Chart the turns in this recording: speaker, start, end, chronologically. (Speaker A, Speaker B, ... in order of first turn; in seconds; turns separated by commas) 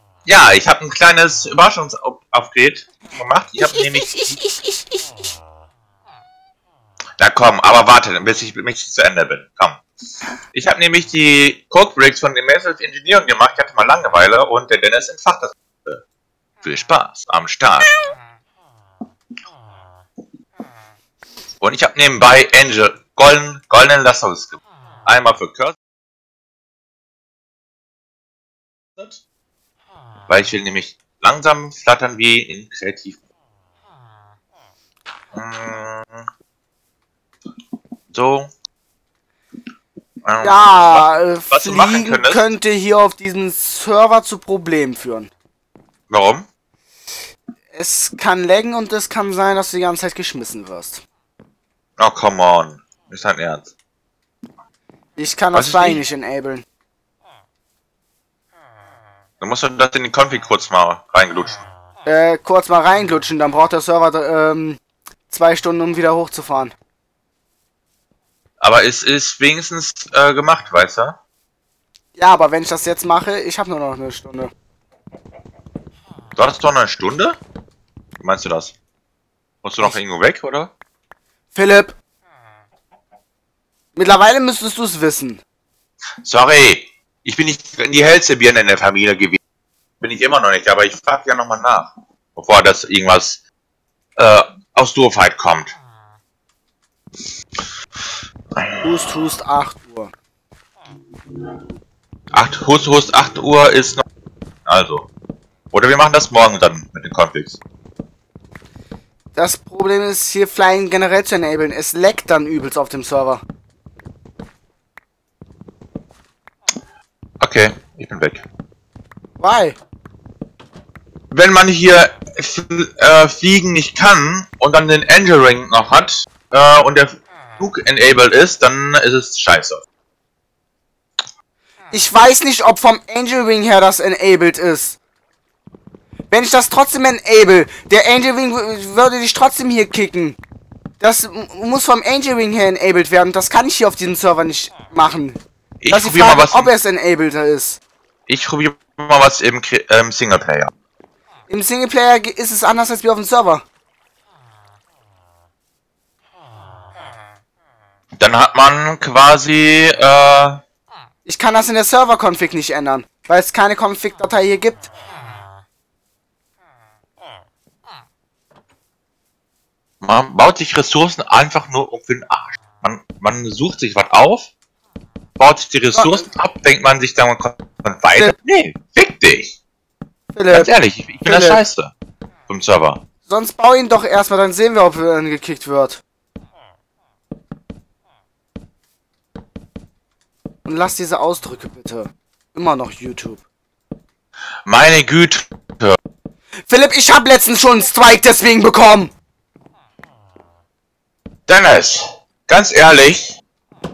Speaker A: 0.2-4.2, Speaker B: 3.6-5.0, Speaker A: 7.2-9.8, Speaker A: 10.5-16.0, Speaker A: 16.6-18.1, Speaker A: 21.6-25.8, Speaker A: 30.3-33.2, Speaker A: 35.3-36.3, Speaker A: 38.1-38.5, Speaker A: 40.2-42.5, Speaker B: 40.4-45.3, Speaker A: 46.1-46.5, Speaker B: 47.7-51.0, Speaker A: 52.0-53.7, Speaker B: 55.2-56.6, Speaker A: 55.5-56.0, Speaker A: 59.4-61.6, Speaker B: 62.0-66.7, Speaker A: 68.6-71.2, Speaker B: 72.1-74.5, Speaker A: 76.3-77.4, Speaker A: 78.2-78.7, Speaker A: 79.6-80.7, Speaker B: 81.5-82.0, Speaker B: 83.9-85.4, Speaker A: 86.2-89.4, Speaker A: 90.0-93.4, Speaker A: 94.2-95.8, Speaker A: 98.5-98.8, Speaker B: 98.8-100.1, Speaker A: 102.3-104.0, Speaker A: 104.7-105.1, Speaker A: 105.7-107.6, Speaker B: 109.3-113.4, Speaker A: 117.4-118.4, Speaker B: 119.4-119.8, Speaker A: 121.3-129.8, Speaker B: 131.9-135.0, Speaker B: 136.3-140.4, Speaker B: 141.0-147.8, Speaker A: 145.8-146.7, Speaker A: 148.3-150.7, Speaker B: 151.5-153.6, Speaker A: 158.2-160.6, Speaker B: 161.2-164.9, Speaker A: 170.0-174.5, Speaker A: 175.4-179.6, Speaker B: 175.9-176.2, Speaker B: 180.3-181.6, Speaker A: 180.5-181.9, Speaker A: 182.5-183.0, Speaker B: 183.2-186.0, Speaker B: 190.7-193.4, Speaker A: 194.7-196.0, Speaker B: 196.7-199.1, Speaker A: 201.5-203.4